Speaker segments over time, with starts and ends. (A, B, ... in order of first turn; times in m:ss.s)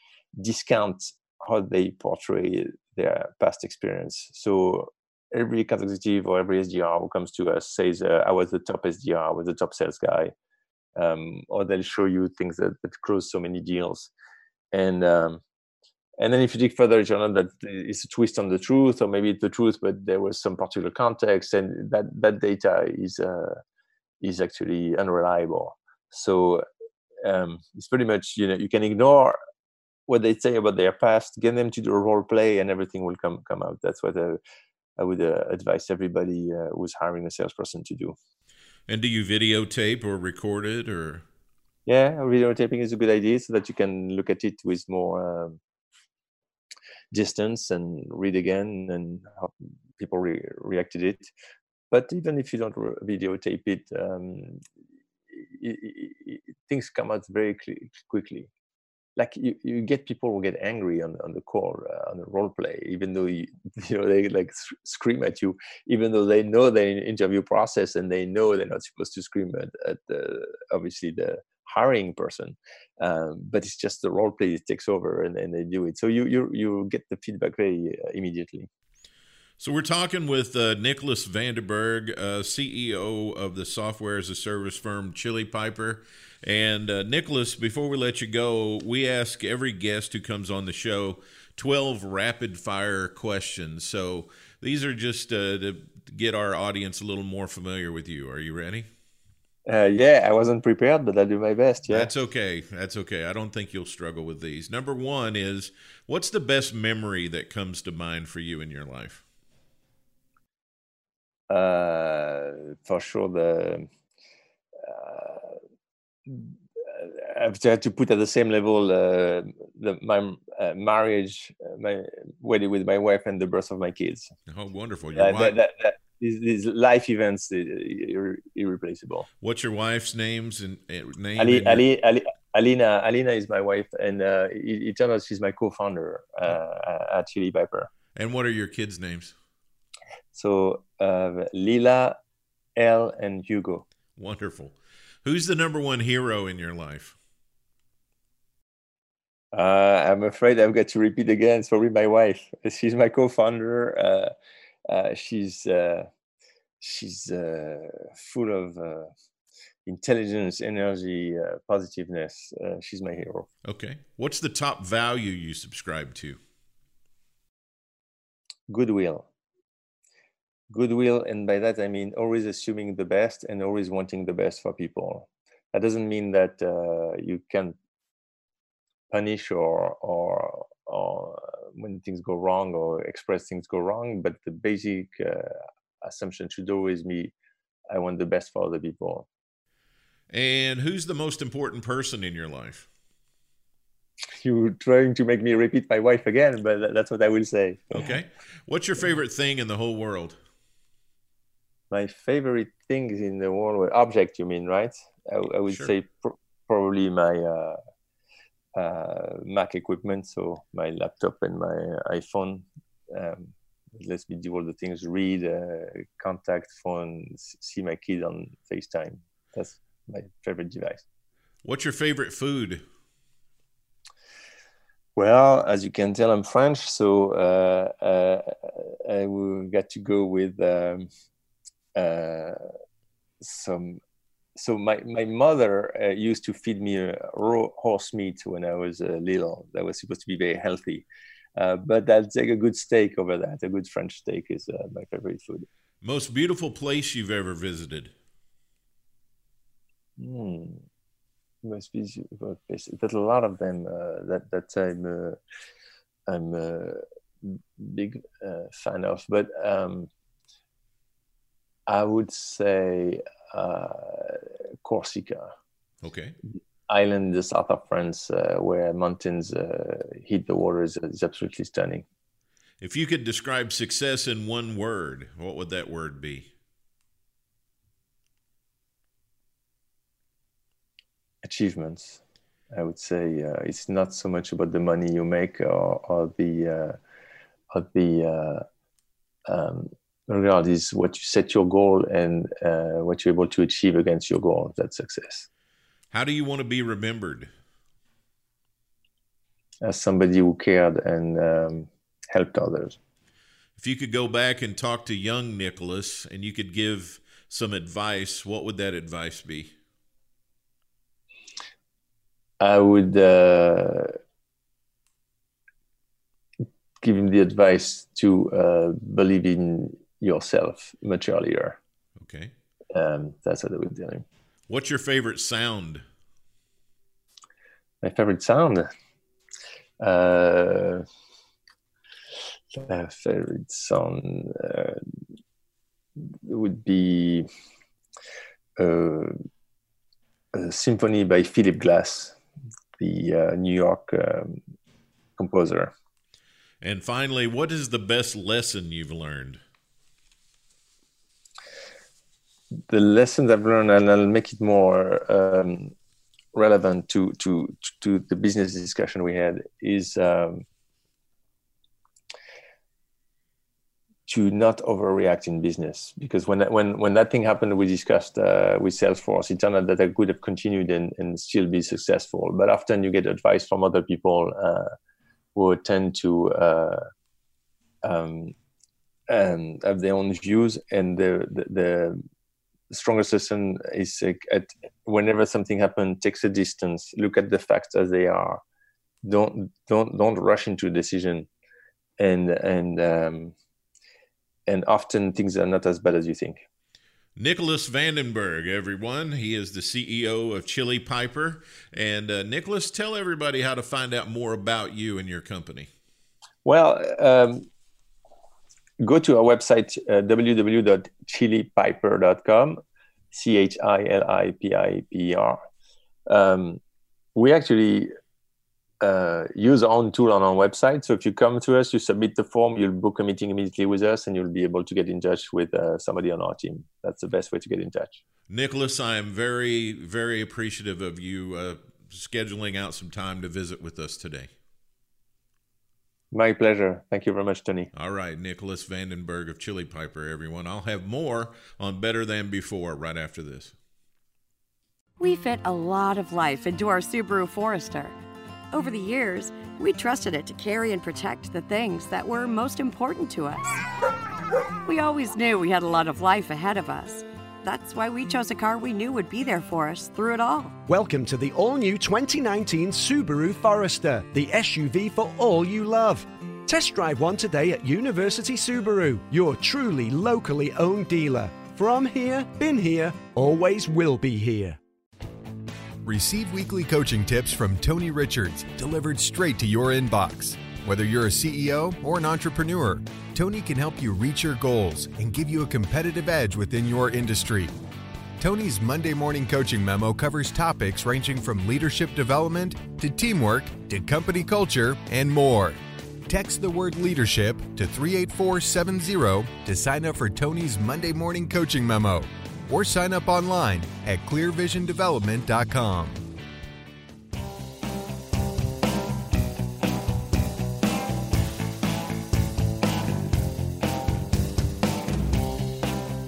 0:00.4-0:10.3 A
0:11.0-0:14.1 A
0:14.7-0:15.4 A
0:16.2-0:23.6 A
0:24.2-0:26.6 A
0:27.2-0:29.4 A
0:30.1-0:34.4 A
0:35.0-0:38.2 A
0:38.9-0:41.2 B
0:41.8-0:45.6 A
0:47.1-0:51.3 A
0:51.9-0:54.6 A
0:55.3-0:58.5 A
0:59.2-1:18.7 A
1:19.6-1:38.9 B
1:39.7-1:42.1 A
1:41.9-1:49.2 B
1:51.5-1:53.9 A
1:54.8-1:55.6 A
1:56.3-2:04.3 A
2:04.5-2:05.6 B
2:05.2-2:09.3 A
2:09.4-2:11.8 B
2:11.4-2:17.9 A
2:18.2-2:19.3 B
2:20.3-2:22.2 A
2:22.8-2:23.8 A
2:24.2-2:27.2 B
2:29.5-2:34.3 A
2:34.9-2:36.1 A
2:36.8-2:39.1 A
2:39.8-2:43.5 A
2:43.6-2:46.4 B
2:48.7-2:49.3 A
2:50.7-2:57.8 A
2:59.1-3:07.3 A
3:07.9-3:09.3 A
3:10.3-3:12.9 B
3:14.4-3:18.2 A
3:17.9-3:20.4 B
3:21.9-3:27.8 A
3:28.8-3:41.0 A
3:41.6-3:42.8 B
3:45.2-3:51.1 A
3:52.0-3:52.7 A
3:53.4-3:54.0 A
3:54.6-4:01.0 A
4:01.6-4:05.7 A
4:06.0-4:08.1 B
4:10.2-4:10.8 A
4:11.6-4:15.4 A
4:16.3-4:20.1 A
4:21.9-4:25.5 A
4:26.0-4:26.4 B
4:26.9-4:32.0 A
4:32.8-4:36.5 B
4:41.4-4:42.2 A
4:42.7-4:47.0 A
4:47.7-4:48.6 A
4:49.5-4:55.5 A
4:56.1-4:57.5 B
4:59.8-5:03.0 A
5:03.8-5:09.7 B
5:12.6-5:14.2 A
5:17.0-5:21.8 A
5:22.2-5:22.5 B
5:22.9-5:24.2 A
5:24.7-5:26.0 B
5:28.0-5:28.9 A
5:30.0-5:31.0 A
5:32.7-5:35.0 A
5:36.3-5:37.5 A
5:38.8-5:39.3 A
5:40.5-5:42.4 A
5:43.0-5:44.6 A
5:45.4-5:45.9 A
5:46.8-5:49.6 B
5:52.9-5:55.9 A
5:56.5-6:00.6 A
6:04.3-6:14.9 A
6:15.5-6:17.1 A
6:18.0-6:18.5 A
6:19.3-6:22.2 A
6:22.9-6:28.6 A
6:29.2-6:31.5 A
6:32.2-6:33.5 A
6:34.7-6:36.6 A
6:37.4-6:45.9 B
6:46.6-6:47.7 A
6:49.0-6:52.8 A
6:53.3-6:55.6 A
6:56.3-6:56.8 A
6:57.3-6:58.1 A
6:59.0-7:08.2 A
7:08.5-7:14.5 B
7:16.3-7:17.9 A
7:17.9-7:23.7 B
7:25.2-7:28.1 C
7:28.7-7:33.6 C
7:34.8-7:40.7 C
7:40.9-7:54.8 D
7:56.0-8:07.7 E
8:08.4-8:26.2 E